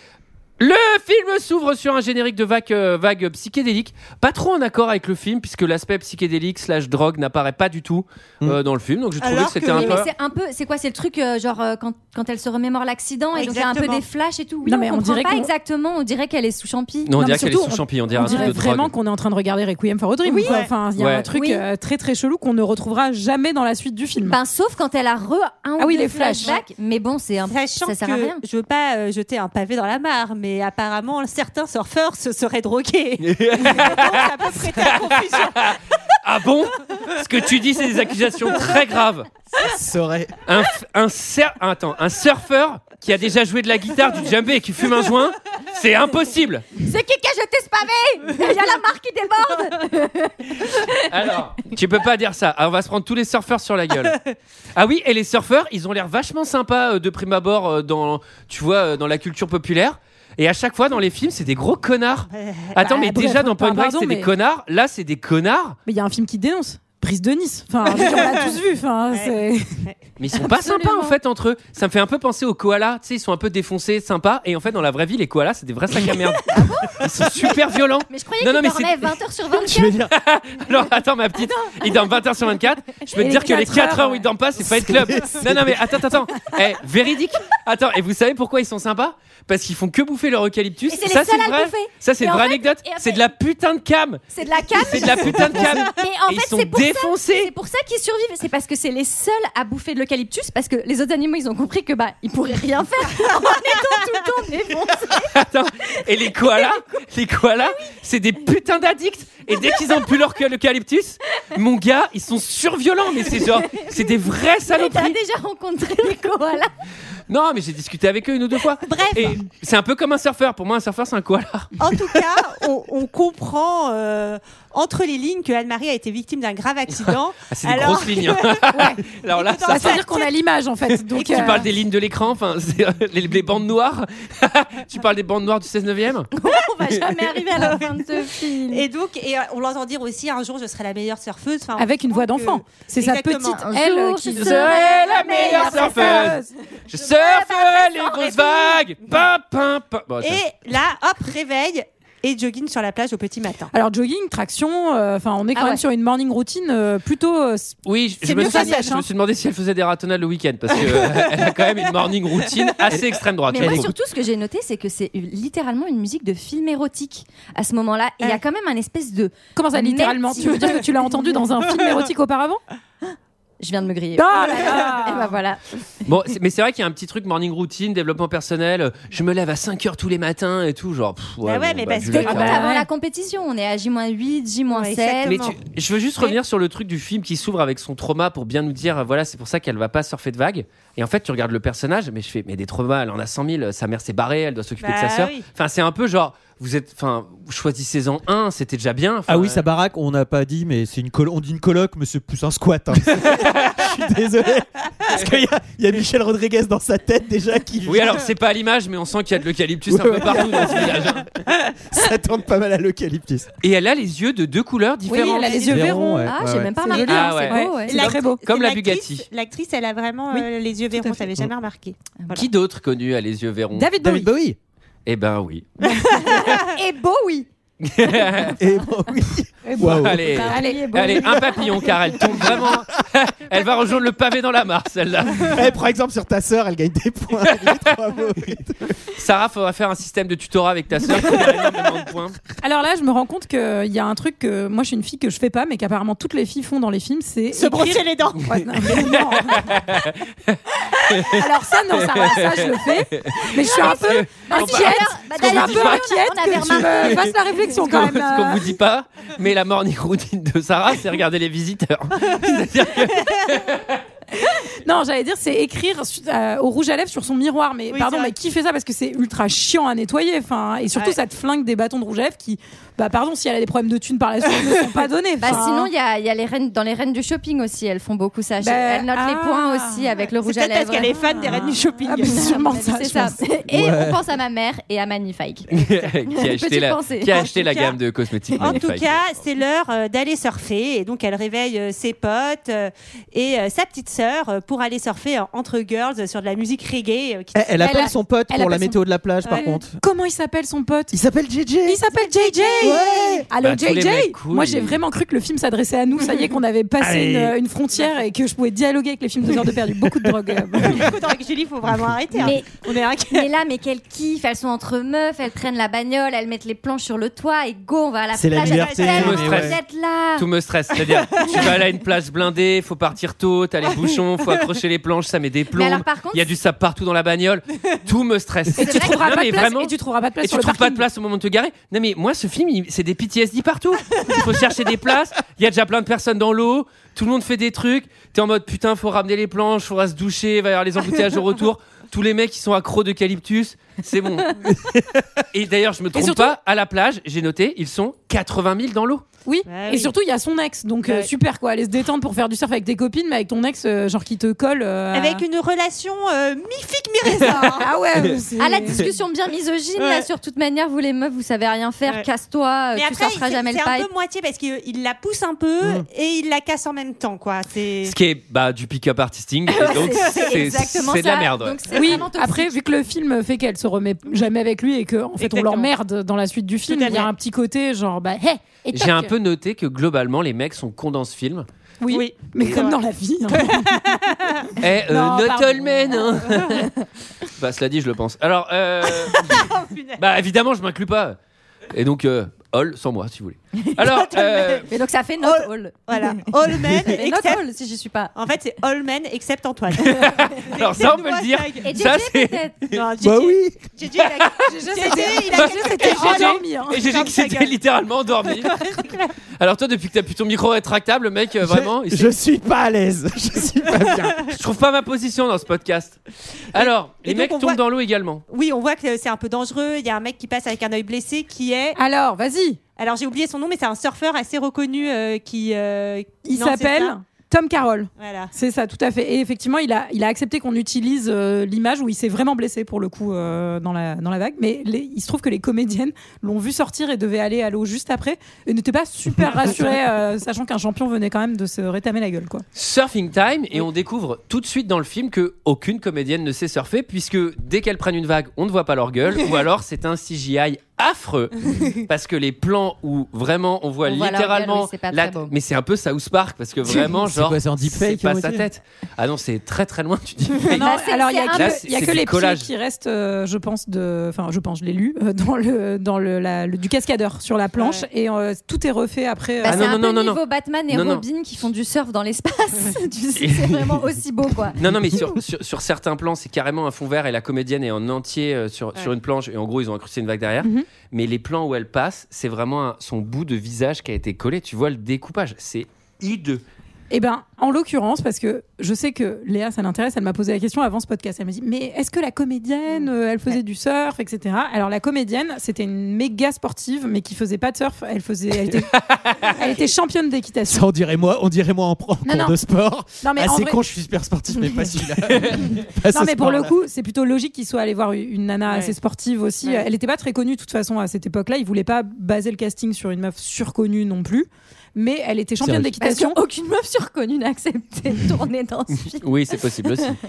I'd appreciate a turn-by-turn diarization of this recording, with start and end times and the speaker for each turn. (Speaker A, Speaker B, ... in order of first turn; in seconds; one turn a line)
Speaker A: 0.6-10.1
Speaker B: 9.2-10.1
Speaker C: 9.7-17.4
Speaker B: 13.3-14.0
Speaker D: 14.7-15.5
Speaker A: 17.1-18.9
Speaker D: 17.2-24.4
Speaker C: 18.2-18.6
Speaker C: 20.2-20.6
Speaker B: 20.4-20.7
Speaker A: 20.9-21.3
Speaker C: 21.3-21.6
Speaker C: 24.2-28.4
Speaker D: 25.8-26.6
Speaker B: 27.5-35.8
Speaker A: 33.2-39.3
Speaker E: 39.5-40.3
Speaker A: 40.5-46.7
Speaker C: 46.8-51.0
Speaker A: 51.1-54.2
Speaker A: 54.8-65.8
Speaker B: 62.3-62.8
Speaker D: 62.8-64.3
Speaker D: 65.8-69.8
Speaker B: 67.8-68.6
Speaker B: 69.1-70.0
Speaker A: 70.2-79.1
Speaker D: 70.4-71.1
Speaker C: 76.5-77.0
Speaker C: 78.1-80.0
Speaker E: 79.5-80.1
Speaker A: 80.1-97.5
Speaker C: 81.5-82.1
Speaker D: 83.2-84.2
Speaker E: 84.6-85.8
Speaker C: 90.9-93.2
Speaker C: 94.3-105.3
Speaker A: 105.3-115.2
Speaker C: 106.2-106.8
Speaker C: 109.5-110.2
Speaker C: 113.2-116.7
Speaker A: 117.3-121.7
Speaker B: 118.8-119.4
Speaker B: 121.8-128.7
Speaker A: 127.0-130.0
Speaker B: 129.3-130.3
Speaker D: 129.7-131.7
Speaker A: 131.1-136.3
Speaker C: 136.3-138.8
Speaker B: 137.6-137.8
Speaker B: 138.7-143.7
Speaker D: 141.8-146.5
Speaker C: 143.6-146.4
Speaker A: 144.3-150.4
Speaker C: 147.1-148.3
Speaker B: 147.3-149.2
Speaker B: 150.2-153.7
Speaker D: 153.7-159.0
Speaker C: 155.5-155.8
Speaker A: 157.8-163.9
Speaker B: 158.3-158.9
Speaker C: 163.5-171.4
Speaker E: 163.6-163.9
Speaker D: 169.5-172.6
Speaker C: 173.6-175.6
Speaker D: 174.1-175.3
Speaker A: 176.1-182.7
Speaker B: 181.4-182.6
Speaker C: 182.1-185.4
Speaker D: 182.3-182.8
Speaker B: 184.7-185.6
Speaker A: 185.2-199.7
Speaker B: 194.8-195.4
Speaker E: 199.3-208.3
Speaker A: 203.2-203.9
Speaker A: 207.8-211.2
Speaker E: 209.9-213.5
Speaker A: 213.6-215.7
Speaker D: 215.1-218.4
Speaker B: 215.2-216.0
Speaker E: 215.7-216.7
Speaker C: 216.2-218.0
Speaker A: 217.0-219.2
Speaker B: 217.9-222.4
Speaker D: 220.3-221.3
Speaker A: 222.3-223.9
Speaker D: 223.7-224.3
Speaker E: 224.0-224.6
Speaker A: 225.1-226.6
Speaker B: 226.1-226.4
Speaker D: 226.7-227.5
Speaker A: 227.8-228.6
Speaker E: 228.6-230.4
Speaker D: 229.6-231.9
Speaker A: 229.8-235.6
Speaker C: 230.3-231.4
Speaker E: 232.3-232.8
Speaker E: 235.5-239.0
Speaker A: 237.5-237.8
Speaker A: 239.1-242.4
Speaker D: 242.6-249.8
Speaker B: 247.5-248.6
Speaker A: 248.5-256.0
Speaker D: 251.1-258.7
Speaker C: 253.5-257.8
Speaker A: 256.6-257.2
Speaker A: 257.8-264.0
Speaker D: 264.5-275.9
Speaker B: 267.9-268.3
Speaker B: 270.9-271.2
Speaker C: 275.4-285.7
Speaker D: 278.6-280.1
Speaker B: 280.4-282.7
Speaker D: 281.1-283.4
Speaker E: 283.7-284.2
Speaker A: 285.7-289.2
Speaker C: 286.3-287.5
Speaker B: 287.3-288.0
Speaker B: 288.6-298.1
Speaker E: 297.5-300.0
Speaker D: 297.8-301.1
Speaker B: 299.4-299.7
Speaker E: 301.1-302.0
Speaker D: 301.8-311.0
Speaker B: 302.1-303.5
Speaker E: 302.8-303.5
Speaker A: 303.6-305.0
Speaker E: 307.0-307.6
Speaker B: 310.9-313.5
Speaker C: 312.4-320.5
Speaker E: 318.3-319.8
Speaker B: 318.6-319.4
Speaker A: 319.1-319.8
Speaker A: 320.4-344.6
Speaker B: 321.4-321.7
Speaker C: 325.7-326.5
Speaker D: 328.8-331.1
Speaker C: 328.8-329.5
Speaker E: 344.7-345.2
Speaker A: 345.5-349.2
Speaker D: 346.1-346.5
Speaker D: 349.4-355.4
Speaker B: 349.7-350.1
Speaker B: 351.0-351.3
Speaker B: 355.1-357.9
Speaker D: 357.4-359.1
Speaker C: 358.6-364.1
Speaker B: 360.0-360.2
Speaker B: 362.9-368.1
Speaker A: 368.0-371.8
Speaker C: 369.7-372.8
Speaker D: 371.9-379.3
Speaker B: 375.4-375.9
Speaker B: 376.9-377.3
Speaker A: 378.9-381.7
Speaker D: 382.0-383.9
Speaker B: 382.1-384.7
Speaker A: 384.8-386.9
Speaker D: 385.1-386.3
Speaker A: 387.6-389.6
Speaker B: 389.3-390.2
Speaker A: 390.2-391.4
Speaker A: 391.9-394.9
Speaker B: 394.0-394.9
Speaker C: 394.9-398.3
Speaker B: 395.4-397.6
Speaker B: 398.3-401.9
Speaker A: 400.0-403.0
Speaker C: 401.8-402.8
Speaker B: 402.9-407.7
Speaker E: 403.2-403.8
Speaker A: 404.2-404.7
Speaker D: 404.6-407.1
Speaker A: 405.5-408.8
Speaker B: 408.6-409.3
Speaker A: 409.6-412.3
Speaker E: 411.6-414.6
Speaker A: 414.5-416.2
Speaker A: 416.7-418.4
Speaker B: 416.7-417.8
Speaker B: 418.5-422.0
Speaker D: 421.9-422.8
Speaker B: 423.0-427.1
Speaker D: 426.4-442.6
Speaker B: 428.2-428.5
Speaker A: 442.7-460.9
Speaker C: 454.0-455.5
Speaker E: 456.9-458.7
Speaker D: 460.7-469.9
Speaker C: 460.7-461.9
Speaker A: 461.5-462.7
Speaker B: 467.8-468.1
Speaker C: 469.6-475.3
Speaker A: 469.6-471.2
Speaker A: 473.4-473.9
Speaker A: 474.8-486.6
Speaker D: 487.1-500.9
Speaker A: 498.9-499.5
Speaker E: 500.7-506.7
Speaker D: 502.2-502.6
Speaker D: 503.2-503.8
Speaker A: 505.3-505.6
Speaker D: 506.1-516.4
Speaker B: 508.7-508.9
Speaker E: 515.6-515.9
Speaker C: 516.0-520.1
Speaker A: 519.2-520.2